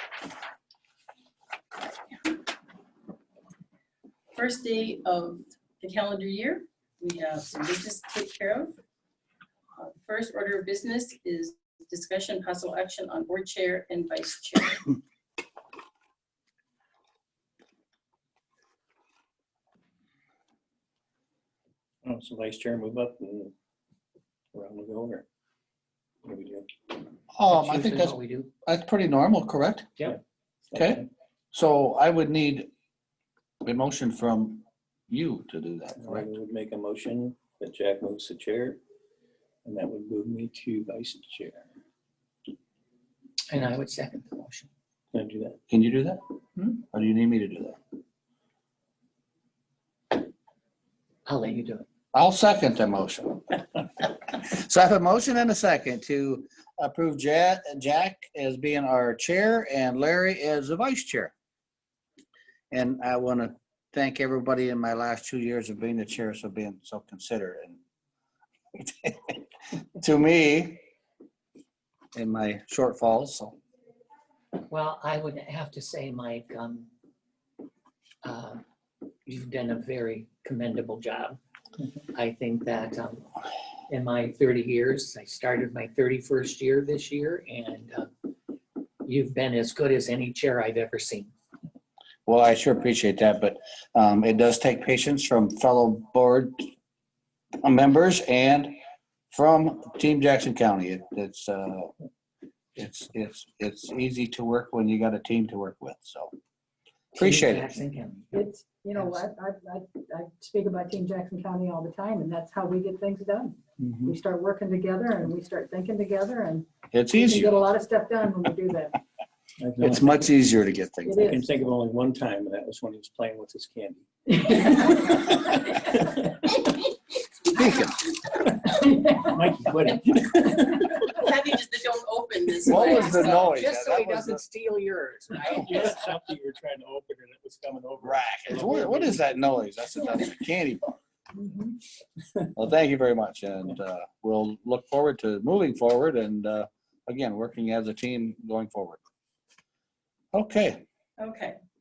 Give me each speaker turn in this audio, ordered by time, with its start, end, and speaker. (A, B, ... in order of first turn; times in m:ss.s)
0:01.8-0:02.3 A
0:04.3-0:08.8 A
0:09.8-0:14.9 A
0:22.0-0:23.5 B
0:24.5-0:25.2 B
0:26.2-0:26.7 B
0:27.3-0:29.9 C
0:27.5-0:28.5 D
0:30.7-0:31.0 B
0:30.7-0:32.7 C
0:33.6-0:36.3 C
0:36.0-0:38.8 B
0:39.6-0:41.7 B
0:43.5-0:44.7 D
0:45.1-0:45.6 B
0:45.7-0:47.8 C
0:51.2-0:51.8 D
0:52.1-1:01.3 C
1:02.7-1:07.8 C
1:08.8-1:09.4 C
1:10.0-1:10.8 C
1:12.1-1:13.6 C
1:14.7-1:16.9 D
1:18.2-1:18.6 D
1:19.3-1:21.4 D
1:22.1-1:28.1 D
1:29.0-1:31.3 D
1:32.3-1:36.6 C
1:37.6-1:38.8 C
1:39.3-1:41.9 C
1:42.8-1:46.3 C
1:47.1-1:49.2 D
1:47.2-1:47.8 C
1:48.3-1:59.0 E
1:53.8-1:54.2 B
1:56.9-1:57.6 C
1:59.6-2:00.1 B
1:59.8-2:01.2 C
2:01.0-2:01.4 E
2:01.2-2:06.2 B
2:04.4-2:05.0 E
2:07.5-2:08.1 C
2:08.8-2:11.1 B
2:08.8-2:09.2 E
2:10.9-2:13.6 A
2:12.6-2:14.4 C
2:12.7-2:15.9 D
2:15.4-2:19.4 B
2:18.0-2:21.0 C
2:21.4-2:21.7 E
2:22.5-2:29.0 C
2:30.3-2:30.8 C
2:31.2-2:31.6 A